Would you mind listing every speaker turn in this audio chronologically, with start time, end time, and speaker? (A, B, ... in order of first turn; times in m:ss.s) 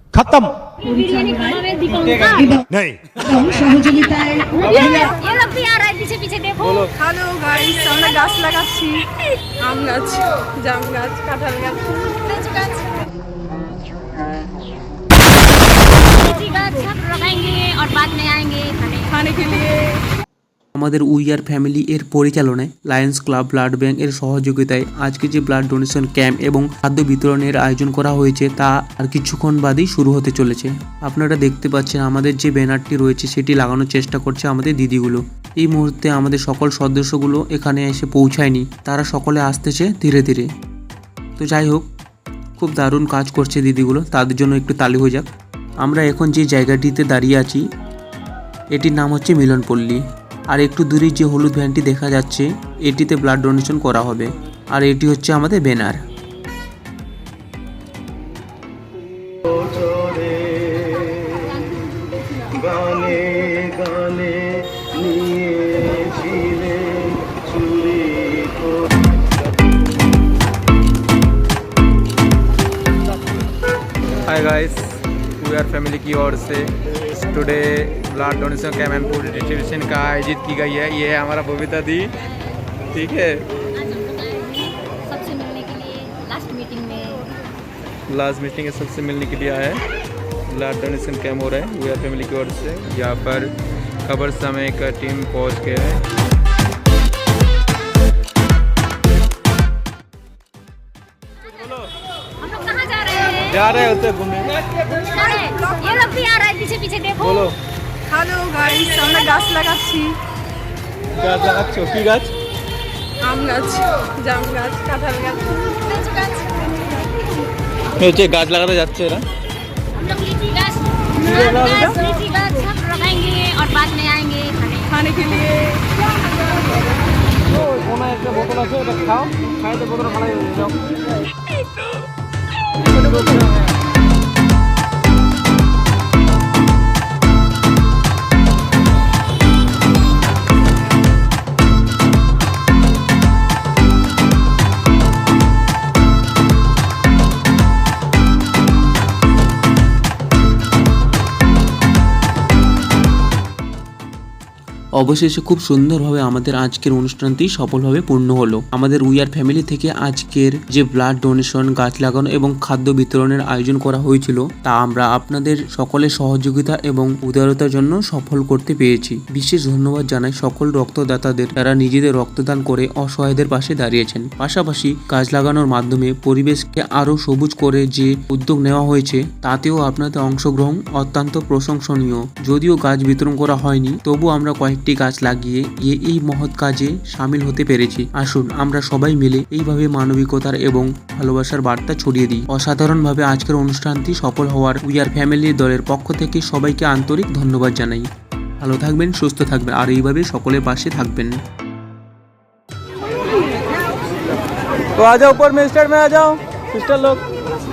0:00.1-0:00.5 A
0:00.7-0:02.6 B
0:03.3-0:06.9 B
0:06.9-0:12.6 C
0:16.2-0:19.1 B
0:19.1-0:20.0 C
0:20.8-0:40.5 D
0:41.4-0:41.9 D
0:42.6-0:47.6 D
0:48.7-0:56.0 D
1:00.0-1:01.8 B
1:02.6-1:04.4 A
1:05.2-1:05.7 A
1:06.4-1:06.8 A
1:14.2-1:22.2 E
1:22.9-1:23.5 E
1:23.8-1:27.3 B
1:28.1-1:29.8 E
1:30.5-1:33.5 E
1:34.0-1:36.0 E
1:42.4-1:43.6 B
1:43.5-1:44.6 E
1:45.0-1:47.5 B
1:48.1-1:50.2 C
1:51.1-1:52.3 E
1:53.2-1:55.8 C
1:56.0-1:56.6 B
1:58.0-1:59.3 E
2:00.0-2:05.0 B
2:05.0-2:05.8 C
2:07.9-2:09.3 E
2:35.0-3:18.1 D
3:18.6-3:21.4 D
3:25.0-3:27.2 E